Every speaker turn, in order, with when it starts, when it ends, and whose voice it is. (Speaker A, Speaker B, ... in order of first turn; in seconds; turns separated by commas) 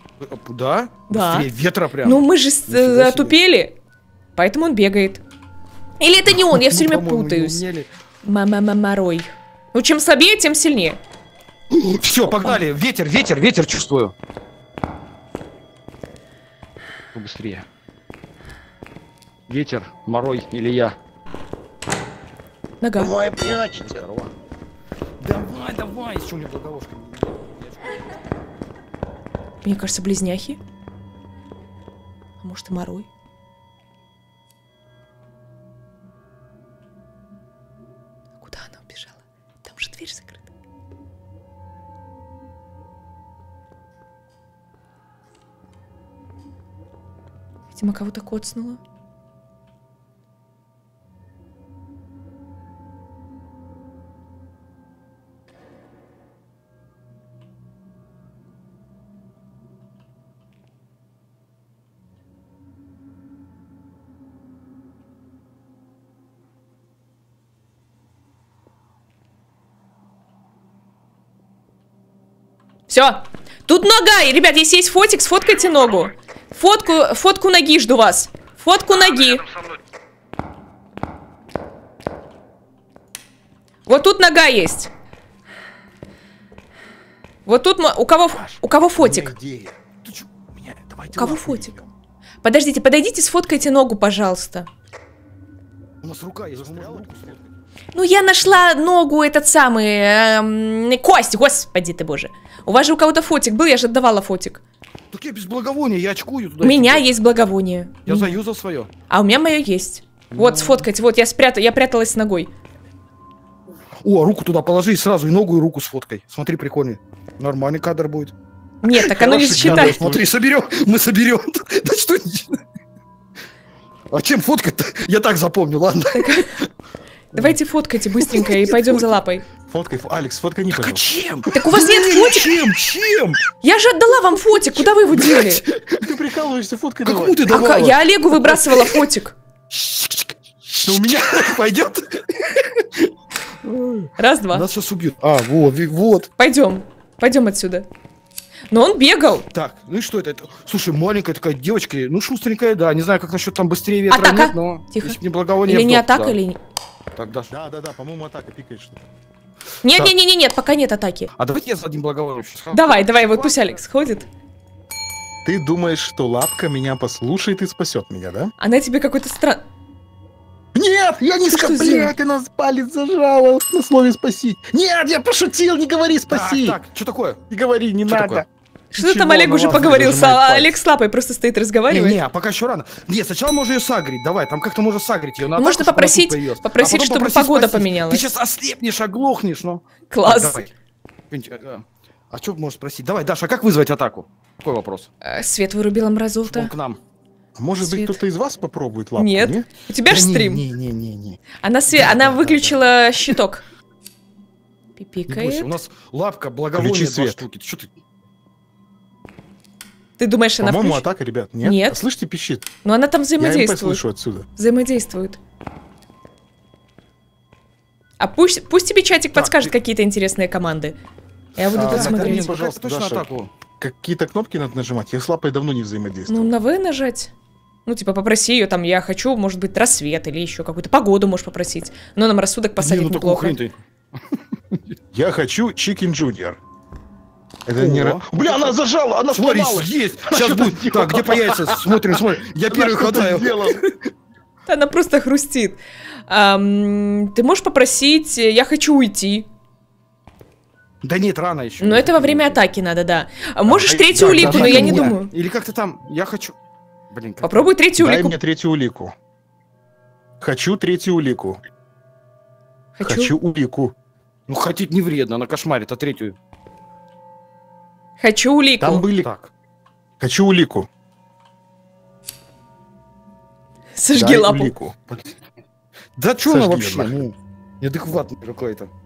Speaker A: 0.2-3.4, Speaker B: 1.1-1.5, Speaker B: 2.0-3.8, Speaker B: 4.3-5.2, Speaker B: 6.0-7.6, Speaker A: 6.3-7.9, Speaker B: 8.2-11.0, Speaker A: 11.7-14.1, Speaker B: 12.3-12.6, Speaker A: 17.1-17.6, Speaker A: 19.5-20.9, Speaker B: 22.8-23.1, Speaker C: 23.0-24.0, Speaker A: 23.4-24.3, Speaker A: 25.2-28.0, Speaker B: 29.6-30.6, Speaker B: 32.4-33.1, Speaker B: 38.4-40.5, Speaker B: 47.7-48.8, Speaker B: 72.9-79.4, Speaker A: 78.9-79.8, Speaker B: 83.9-84.9, Speaker B: 87.5-89.3, Speaker C: 88.3-89.8, Speaker A: 90.0-90.4, Speaker C: 90.5-91.9, Speaker B: 91.1-91.7, Speaker B: 92.4-94.7, Speaker A: 96.0-97.4, Speaker C: 96.5-97.5, Speaker B: 97.9-104.6, Speaker A: 105.1-107.1, Speaker B: 106.6-108.4, Speaker A: 108.0-108.9, Speaker B: 109.1-112.5, Speaker A: 110.3-110.8, Speaker A: 114.0-118.3, Speaker B: 118.8-120.1, Speaker A: 118.9-122.6, Speaker C: 119.1-120.3, Speaker A: 124.1-126.6, Speaker B: 126.1-126.6, Speaker B: 127.3-129.4, Speaker A: 128.2-129.1, Speaker C: 129.7-131.1, Speaker A: 130.7-133.4, Speaker B: 131.5-132.5, Speaker B: 133.6-135.6, Speaker A: 134.5-136.1, Speaker C: 136.0-137.5, Speaker A: 137.0-139.0, Speaker B: 137.5-139.3, Speaker A: 139.7-146.3, Speaker C: 140.8-141.5, Speaker B: 144.2-144.7, Speaker B: 146.4-147.9, Speaker B: 148.7-149.5, Speaker A: 149.5-156.4, Speaker B: 154.1-156.6, Speaker A: 157.2-157.5, Speaker C: 157.5-159.0, Speaker B: 159.8-161.3, Speaker A: 161.4-164.3, Speaker B: 162.7-164.2, Speaker C: 165.4-168.5, Speaker B: 168.6-169.6, Speaker C: 170.7-176.8, Speaker B: 171.5-172.1, Speaker A: 176.3-177.4, Speaker C: 177.5-180.7, Speaker A: 178.1-178.4, Speaker B: 178.9-182.2, Speaker A: 179.7-180.2, Speaker A: 181.9-190.7, Speaker B: 185.5-188.3, Speaker B: 190.1-190.6, Speaker A: 191.3-195.1, Speaker B: 195.2-196.7, Speaker A: 196.5-197.0, Speaker C: 197.6-199.7, Speaker B: 197.8-198.2, Speaker B: 199.2-200.6, Speaker A: 200.1-202.8, Speaker B: 201.6-203.6, Speaker B: 205.0-205.7, Speaker A: 205.3-207.9, Speaker C: 206.7-207.4, Speaker B: 210.2-211.0, Speaker C: 210.6-212.7, Speaker B: 211.6-212.0, Speaker B: 212.8-214.0, Speaker C: 213.4-214.5, Speaker B: 214.6-215.4, Speaker B: 218.2-220.9, Speaker A: 219.3-219.7, Speaker B: 221.6-222.5, Speaker C: 221.7-223.2, Speaker A: 221.7-223.5, Speaker C: 223.8-226.5, Speaker B: 226.3-227.3, Speaker B: 227.8-233.6, Speaker A: 232.8-233.7, Speaker C: 235.1-236.6, Speaker C: 237.7-243.8, Speaker A: 237.8-238.8, Speaker A: 239.3-244.0, Speaker B: 244.7-249.5, Speaker A: 251.0-252.6, Speaker B: 251.8-255.3, Speaker C: 253.7-255.2, Speaker A: 254.2-256.6, Speaker A: 257.1-257.7, Speaker B: 257.4-258.3, Speaker C: 258.0-259.1, Speaker C: 260.4-261.6, Speaker B: 262.9-263.3, Speaker C: 263.0-263.9, Speaker A: 264.5-266.4, Speaker B: 268.2-269.1, Speaker C: 268.8-269.3, Speaker A: 269.2-269.5, Speaker C: 270.2-270.9, Speaker B: 273.9-274.7, Speaker C: 274.1-275.3, Speaker A: 276.2-278.9, Speaker C: 276.4-277.3